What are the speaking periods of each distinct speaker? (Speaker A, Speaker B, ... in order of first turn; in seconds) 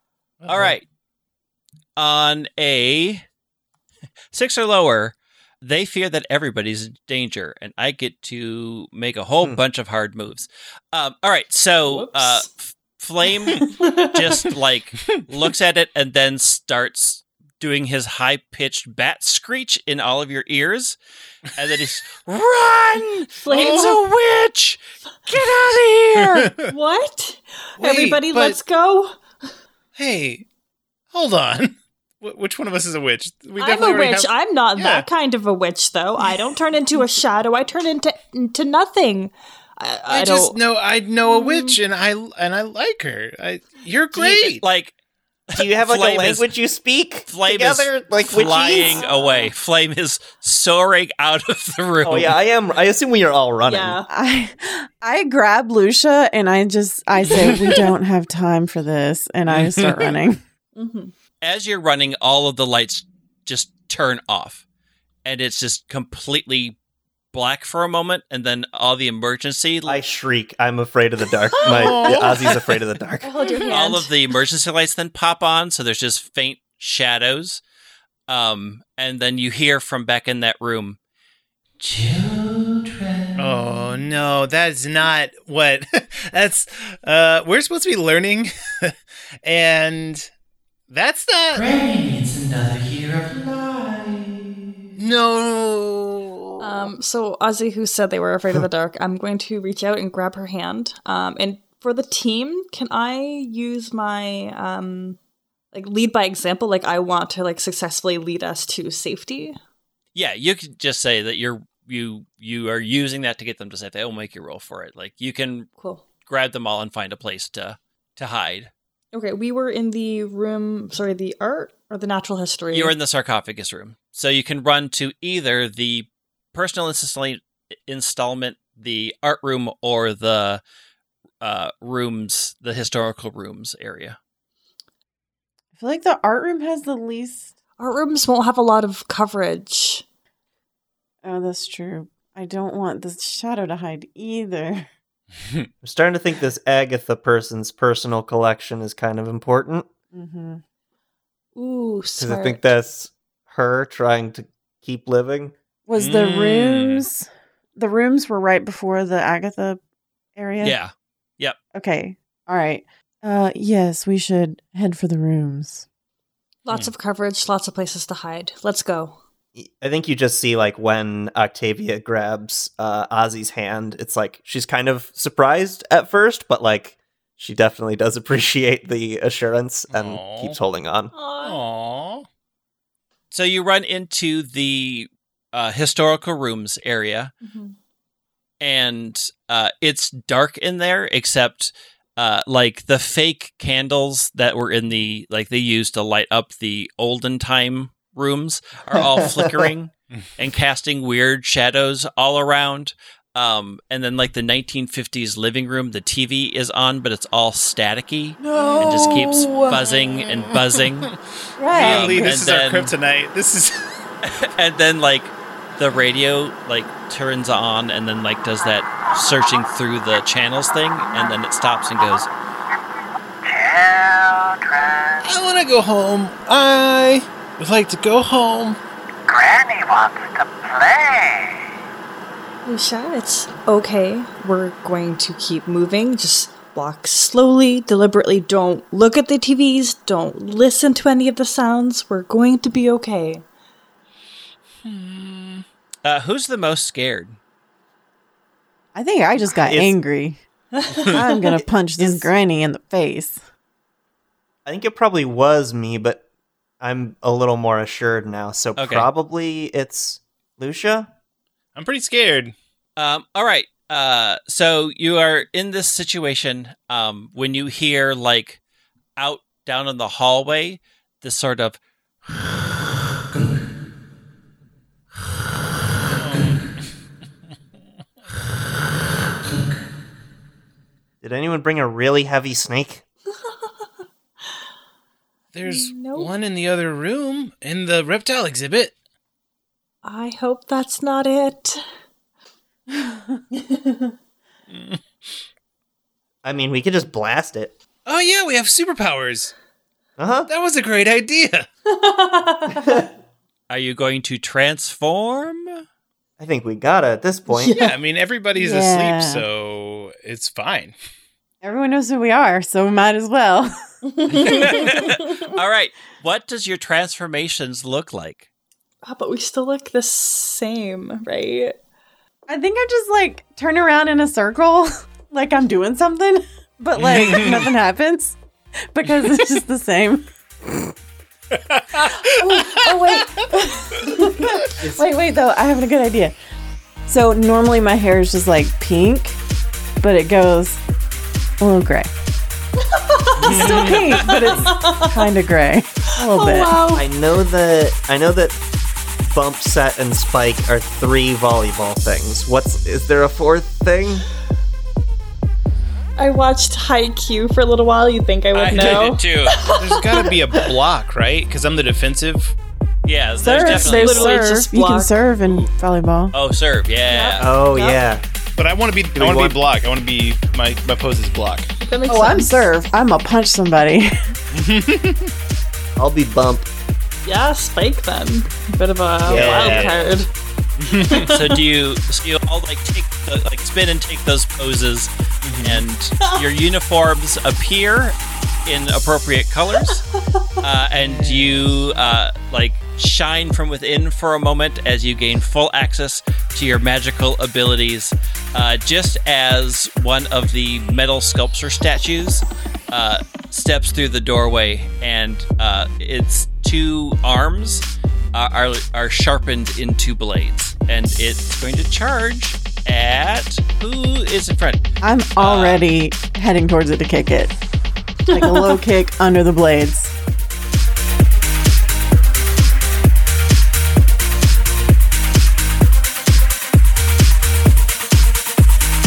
Speaker A: 0.4-0.8, 23.5-24.0, 26.2-26.6, 27.8-28.6, 29.9-30.4, 31.1-35.1, 40.1-44.6, 57.3-57.8, 59.5-60.1, 71.6-72.6, 73.4-73.7, 83.4-90.3, 90.9-91.7, 95.0-96.9, 156.0-157.0, 179.9-180.6, 181.4-182.3, 208.7-211.1, 211.7-213.9, 225.2-228.8, 244.8-245.7, 261.8-262.6, 276.1-276.7, 285.5-288.9, 294.7-295.0, 298.1-299.5, 300.5-301.7, 307.8-311.0, 327.0-327.8, 331.5-333.4, 334.4-334.7, 343.4-344.2, 359.8-362.6, 368.6-371.7, 374.5-375.3, 379.3-380.0, 380.8-381.3, 385.4-385.8, 390.9-391.7
Speaker B: 0.5-0.8, 2.0-3.2, 4.3-21.0, 21.5-26.6, 44.1-44.9, 45.5-46.5, 47.3-52.3, 61.4-64.6, 65.2-66.8, 67.3-70.0, 73.7-77.6, 78.3-81.0, 81.8-83.4, 91.5-94.7, 110.2-115.7, 116.2-118.7, 122.7-130.6, 131.4-134.2, 160.6-161.6, 183.3-187.3, 188.6-211.1, 211.7-212.9, 214.2-222.3, 246.0-247.4, 258.8-259.1, 263.0-268.6, 269.2-271.8, 303.7-305.8, 314.3-318.5, 358.5-359.6, 363.1-364.5, 365.4-365.7, 366.3-367.5, 381.3-385.1, 385.6-390.0, 390.6-414.8, 415.4-415.8
Speaker C: 11.8-12.5, 13.6-14.5, 23.4-23.9, 26.6-29.2, 33.6-40.6, 41.2-41.8, 48.7-49.5, 53.7-54.1, 60.8-61.1, 71.5-72.2, 73.2-74.1, 96.6-105.2, 105.7-109.6, 115.8-116.1, 119.1-123.0, 137.8-140.0, 151.6-152.6, 166.7-169.2, 181.1-181.6, 187.4-187.8, 232.7-243.4, 250.7-251.6, 283.3-283.9, 285.6-286.3, 290.0-291.8, 293.5-294.1, 301.9-303.1, 307.6-307.9, 314.1-315.6, 319.0-321.8, 342.8-345.3, 346.1-347.1, 356.2-360.4, 363.4-365.2, 367.1-368.0, 371.8-372.6, 377.2-380.3, 380.9-381.6, 389.8-390.6, 418.3-418.8
Speaker D: 45.5-49.0, 52.0-54.0, 69.9-73.3, 145.8-149.9, 152.2-155.5, 169.6-181.1, 198.9-199.7, 249.6-250.0, 254.7-256.2, 256.8-261.1, 281.2-283.0, 296.4-297.7, 300.2-300.5, 306.4-307.8, 334.8-335.1, 346.9-348.6, 349.2-354.3, 367.4-368.2, 369.1-369.6, 376.0-376.7, 379.2-379.9
Speaker E: 54.1-60.4, 135.8-137.5, 141.2-144.9, 150.1-150.6, 155.9-159.8, 160.4-160.8, 161.7-165.8, 208.4-209.8, 211.6-212.4, 248.9-250.4, 251.1-253.4, 308.5-309.5, 311.6-313.8, 322.5-330.3, 331.9-336.4, 337.1-339.4, 340.0-340.8, 341.6-342.1, 343.4-346.8, 358.7-359.0, 363.4-366.3, 372.1-374.4, 415.0-417.6, 418.3-420.2